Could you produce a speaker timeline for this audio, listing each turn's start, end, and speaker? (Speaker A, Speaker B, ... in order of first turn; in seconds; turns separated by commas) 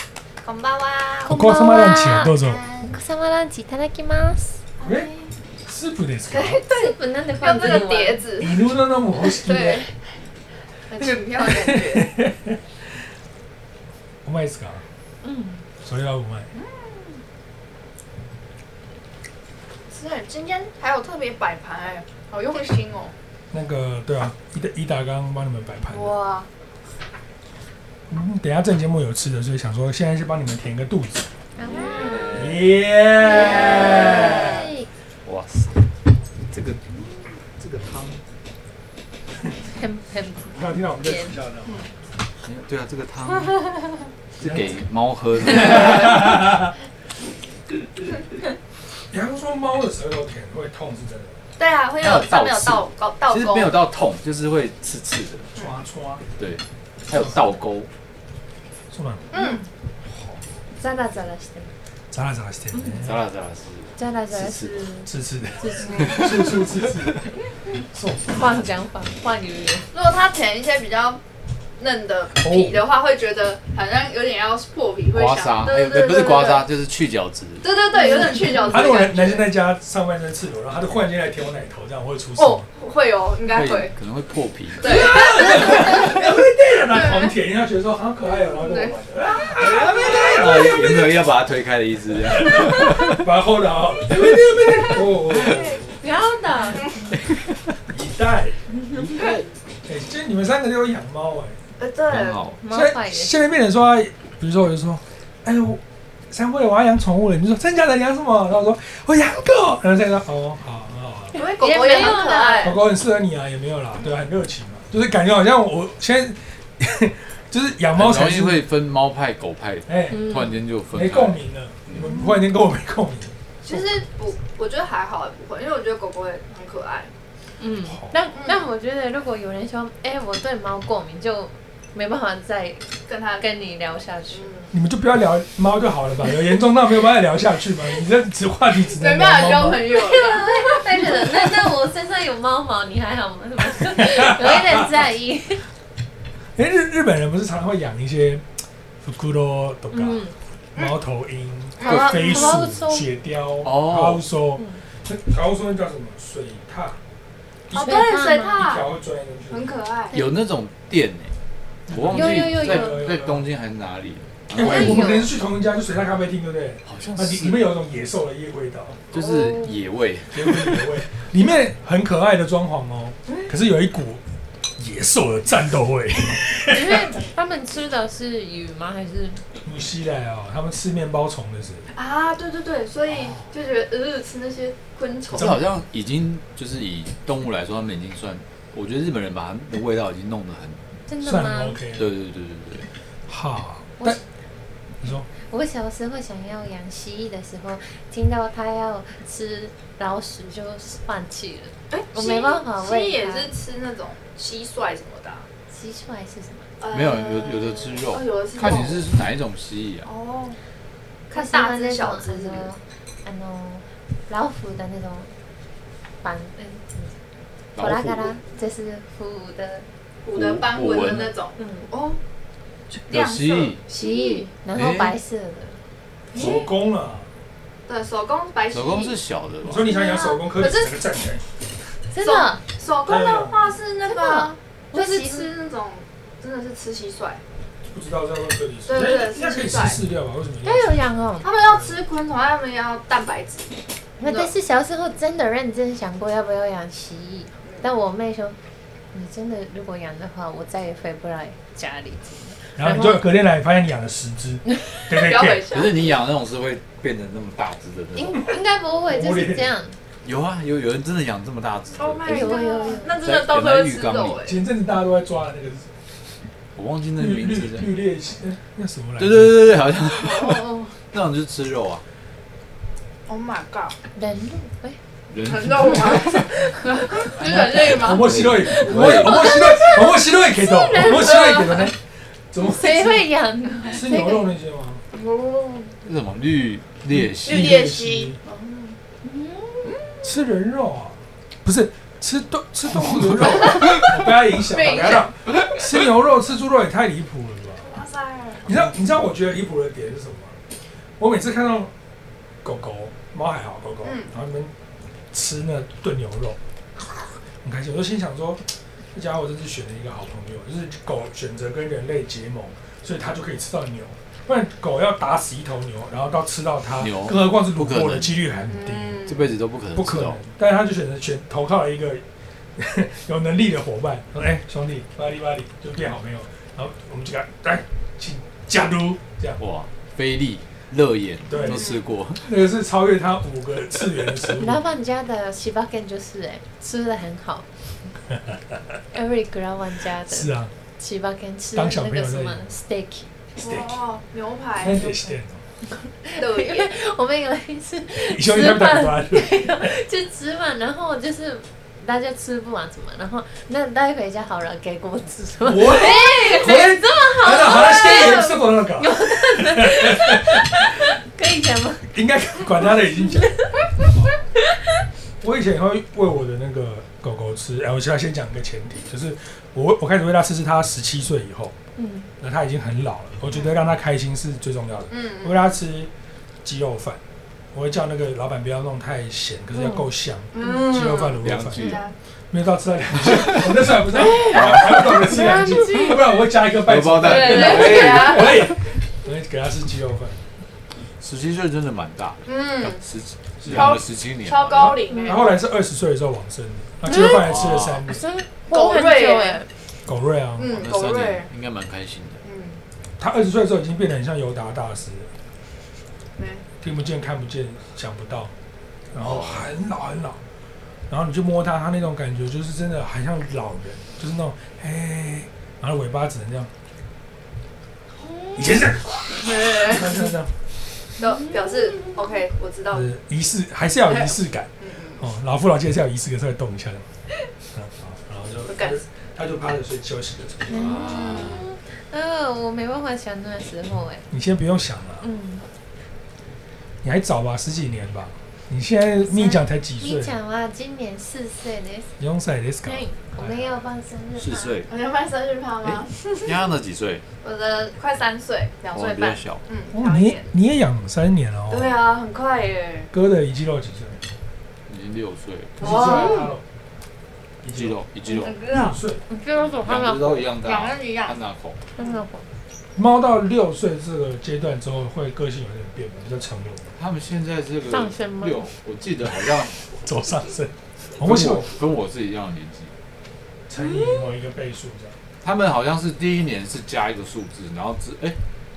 Speaker A: 0.4-1.3, Speaker B: 1.2-2.6, Speaker C: 1.3-4.6, Speaker A: 2.4-2.9, Speaker A: 4.8-5.3, Speaker B: 4.8-5.1, Speaker B: 5.6-6.6, Speaker A: 6.3-8.6, Speaker C: 6.7-8.2, Speaker B: 8.4-9.8, Speaker A: 9.3-9.9, Speaker A: 10.9-12.1, Speaker B: 11.4-12.6, Speaker B: 14.2-14.8, Speaker C: 15.2-15.7, Speaker B: 15.8-16.5, Speaker A: 16.5-17.2, Speaker A: 19.9-23.1, Speaker B: 23.5-26.1, Speaker A: 25.9-26.5, Speaker B: 28.1-31.3, Speaker C: 31.6-32.4, Speaker A: 31.7-32.3, Speaker D: 31.8-32.8, Speaker B: 32.3-34.7, Speaker C: 33.2-34.9, Speaker A: 33.3-34.4, Speaker D: 35.2-35.8, Speaker D: 36.5-37.0, Speaker D: 37.6-38.2, Speaker C: 39.7-41.3, Speaker B: 40.5-41.9, Speaker D: 42.4-43.7, Speaker D: 44.4-46.5, Speaker B: 44.4-44.8, Speaker B: 45.4-46.7, Speaker B: 49.1-51.4, Speaker A: 51.6-53.8, Speaker D: 52.0-55.5, Speaker B: 55.5-56.2, Speaker D: 56.4-57.9, Speaker B: 58.9-59.3, Speaker A: 59.3-59.6, Speaker C: 59.3-59.6, Speaker B: 60.1-60.4, Speaker C: 60.7-61.7, Speaker B: 62.1-63.2, Speaker C: 62.7-63.0, Speaker D: 62.9-64.8, Speaker C: 64.0-66.5, Speaker B: 65.0-68.6, Speaker A: 65.8-66.6, Speaker C: 68.3-69.9, Speaker A: 69.9-71.2, Speaker A: 71.8-76.7, Speaker B: 72.4-72.8, Speaker D: 75.1-77.7, Speaker A: 77.6-79.5, Speaker C: 77.9-78.8, Speaker B: 78.7-82.6, Speaker A: 82.4-83.9, Speaker D: 83.5-85.2, Speaker A: 84.8-86.2, Speaker B: 84.8-91.2, Speaker A: 86.9-87.3, Speaker A: 88.5-90.7, Speaker D: 89.6-93.2, Speaker B: 92.2-95.9, Speaker D: 94.1-95.7, Speaker A: 95.4-95.8, Speaker C: 96.0-97.2, Speaker B: 97.9-98.6, Speaker D: 98.9-99.4, Speaker B: 99.8-101.6, Speaker A: 101.8-102.5, Speaker D: 102.1-102.5, Speaker C: 102.6-103.3, Speaker B: 102.7-111.4, Speaker A: 111.3-112.8, Speaker C: 111.4-112.8, Speaker B: 112.6-118.7, Speaker D: 117.9-122.2, Speaker B: 119.9-120.3, Speaker C: 120.1-120.6, Speaker B: 120.9-123.9, Speaker A: 123.6-127.1, Speaker C: 127.6-134.5, Speaker B: 127.9-128.1, Speaker A: 128.3-128.6, Speaker A: 133.1-133.4, Speaker A: 134.3-134.7, Speaker B: 134.7-139.9, Speaker A: 138.9-141.4, Speaker C: 139.8-145.6, Speaker B: 143.8-145.1, Speaker B: 146.5-148.4, Speaker B: 149.0-157.0, Speaker C: 149.9-150.3, Speaker A: 151.8-152.6, Speaker C: 151.8-153.1, Speaker D: 153.6-154.2, Speaker B: 157.7-158.0, Speaker A: 157.7-158.9, Speaker C: 157.7-158.7, Speaker B: 158.6-159.7, Speaker A: 159.5-160.1, Speaker D: 160.1-161.3, Speaker D: 161.9-165.2, Speaker B: 161.9-163.5, Speaker C: 162.1-163.0, Speaker B: 164.5-169.2, Speaker C: 164.6-165.3, Speaker D: 166.9-167.8, Speaker D: 169.1-171.0, Speaker A: 169.1-169.8, Speaker B: 170.3-174.2, Speaker B: 174.8-177.2, Speaker C: 176.7-179.4, Speaker B: 179.6-181.9, Speaker A: 181.9-185.6, Speaker D: 185.3-190.8, Speaker B: 185.3-185.7, Speaker C: 191.1-191.8, Speaker B: 191.2-192.1, Speaker D: 191.9-192.9, Speaker B: 193.3-194.2, Speaker B: 195.0-195.3, Speaker C: 195.3-203.5, Speaker A: 201.9-205.4, Speaker C: 205.7-206.7, Speaker A: 206.8-209.1, Speaker D: 206.9-210.1, Speaker A: 210.0-210.6, Speaker A: 211.3-212.7, Speaker C: 211.3-215.3, Speaker C: 216.2-217.2, Speaker D: 217.7-218.4, Speaker C: 217.8-219.8, Speaker A: 220.2-222.2, Speaker D: 220.3-221.3, Speaker C: 221.6-221.9, Speaker A: 222.9-224.5, Speaker D: 223.1-223.8, Speaker C: 223.9-225.8, Speaker D: 224.7-225.1, Speaker B: 226.3-227.3, Speaker A: 226.3-226.6, Speaker C: 226.3-226.6, Speaker A: 227.9-229.2, Speaker D: 228.7-229.9, Speaker B: 229.6-231.4, Speaker A: 229.8-231.0, Speaker C: 232.1-232.6, Speaker A: 232.2-237.4, Speaker B: 233.0-233.7, Speaker C: 234.1-235.5, Speaker B: 237.9-241.0, Speaker A: 238.9-240.0, Speaker C: 240.6-241.5, Speaker A: 241.4-244.5, Speaker B: 241.7-242.0, Speaker C: 244.2-248.6, Speaker C: 249.1-253.3, Speaker B: 252.8-255.7, Speaker A: 255.1-256.2, Speaker D: 255.7-258.4, Speaker C: 258.1-260.0, Speaker B: 259.1-259.7, Speaker D: 260.2-262.6, Speaker A: 262.0-264.6, Speaker C: 262.2-263.2, Speaker D: 263.2-264.4, Speaker B: 264.4-265.9, Speaker D: 266.8-267.9, Speaker B: 267.2-269.7, Speaker D: 269.2-272.0, Speaker A: 270.1-271.0, Speaker A: 273.3-273.9, Speaker C: 274.1-275.0, Speaker D: 275.3-276.7, Speaker A: 275.4-278.3, Speaker C: 276.7-277.4, Speaker D: 277.2-279.7, Speaker B: 277.9-283.3, Speaker C: 278.7-281.9, Speaker C: 282.6-284.4, Speaker B: 283.9-285.0, Speaker A: 285.1-285.9, Speaker D: 286.0-287.9, Speaker B: 287.1-288.4, Speaker A: 287.4-289.0, Speaker C: 289.2-290.0, Speaker A: 289.8-290.3, Speaker B: 290.2-297.9, Speaker A: 293.7-293.9, Speaker D: 293.8-294.1, Speaker A: 294.5-295.3, Speaker A: 297.8-298.7, Speaker B: 298.6-300.6, Speaker B: 301.2-301.9, Speaker B: 302.6-304.7, Speaker A: 304.0-304.3, Speaker B: 305.3-319.2, Speaker D: 317.0-318.4, Speaker A: 318.7-319.5, Speaker D: 319.2-320.4, Speaker B: 319.9-322.2, Speaker B: 322.8-329.6, Speaker D: 329.6-332.6, Speaker B: 331.5-334.8, Speaker A: 331.6-332.0, Speaker C: 334.5-337.7, Speaker C: 339.1-343.3, Speaker B: 340.3-340.7, Speaker B: 341.7-342.6, Speaker A: 343.6-345.1, Speaker B: 343.6-343.9, Speaker B: 344.8-345.6, Speaker C: 346.2-362.1, Speaker A: 346.4-346.9, Speaker B: 348.1-350.0, Speaker B: 355.6-360.9, Speaker A: 356.0-356.6, Speaker A: 357.6-358.6, Speaker B: 362.1-364.3, Speaker C: 363.4-364.1, Speaker B: 365.4-371.7, Speaker C: 371.9-372.3, Speaker B: 372.4-376.1, Speaker A: 375.1-375.7, Speaker B: 376.6-377.2, Speaker B: 377.7-382.0, Speaker C: 379.7-380.1, Speaker A: 380.5-382.1, Speaker D: 381.4-382.0, Speaker B: 382.5-390.4, Speaker D: 383.3-383.6, Speaker C: 384.1-386.2, Speaker D: 384.4-385.4, Speaker D: 386.9-388.7, Speaker A: 387.2-388.7, Speaker D: 391.2-395.0, Speaker A: 392.4-393.0, Speaker B: 393.6-394.0, Speaker A: 393.7-395.5, Speaker C: 395.1-395.4, Speaker B: 395.2-398.2, Speaker C: 397.1-397.4, Speaker D: 397.3-398.1, Speaker C: 398.1-399.7, Speaker A: 398.7-399.6, Speaker B: 400.1-400.8, Speaker A: 400.6-401.5, Speaker D: 400.6-402.4, Speaker A: 402.4-402.8, Speaker B: 403.2-405.3, Speaker A: 406.4-406.6, Speaker B: 406.8-408.5, Speaker B: 409.1-410.4, Speaker D: 409.2-409.7, Speaker B: 411.1-416.7, Speaker C: 418.2-418.8, Speaker B: 418.5-420.5, Speaker A: 419.4-420.3, Speaker A: 421.2-423.1, Speaker C: 421.3-422.1, Speaker B: 422.9-427.0, Speaker A: 424.1-425.2, Speaker B: 427.7-431.6, Speaker A: 428.7-429.0, Speaker C: 430.7-434.3, Speaker A: 430.7-431.7, Speaker B: 434.3-435.2, Speaker C: 435.2-435.6, Speaker B: 437.0-440.3, Speaker C: 439.3-442.1, Speaker B: 442.2-443.8, Speaker C: 442.8-444.8, Speaker D: 444.4-444.9, Speaker A: 444.9-446.6, Speaker D: 445.8-447.2, Speaker A: 447.4-450.5, Speaker D: 448.9-449.6, Speaker B: 449.9-451.9, Speaker A: 451.7-453.1, Speaker B: 453.1-454.2, Speaker D: 454.9-456.1, Speaker B: 455.8-456.6, Speaker A: 455.8-456.5, Speaker C: 456.1-456.5, Speaker B: 457.6-458.0, Speaker D: 457.7-458.6, Speaker A: 458.2-459.0, Speaker B: 458.7-459.2, Speaker C: 459.3-460.5, Speaker D: 459.6-461.8, Speaker A: 460.6-461.4, Speaker C: 461.9-462.4, Speaker B: 462.9-466.9, Speaker D: 467.0-469.8, Speaker C: 467.9-468.7, Speaker B: 469.8-471.7, Speaker D: 471.2-472.9, Speaker B: 473.7-475.1, Speaker D: 475.4-478.4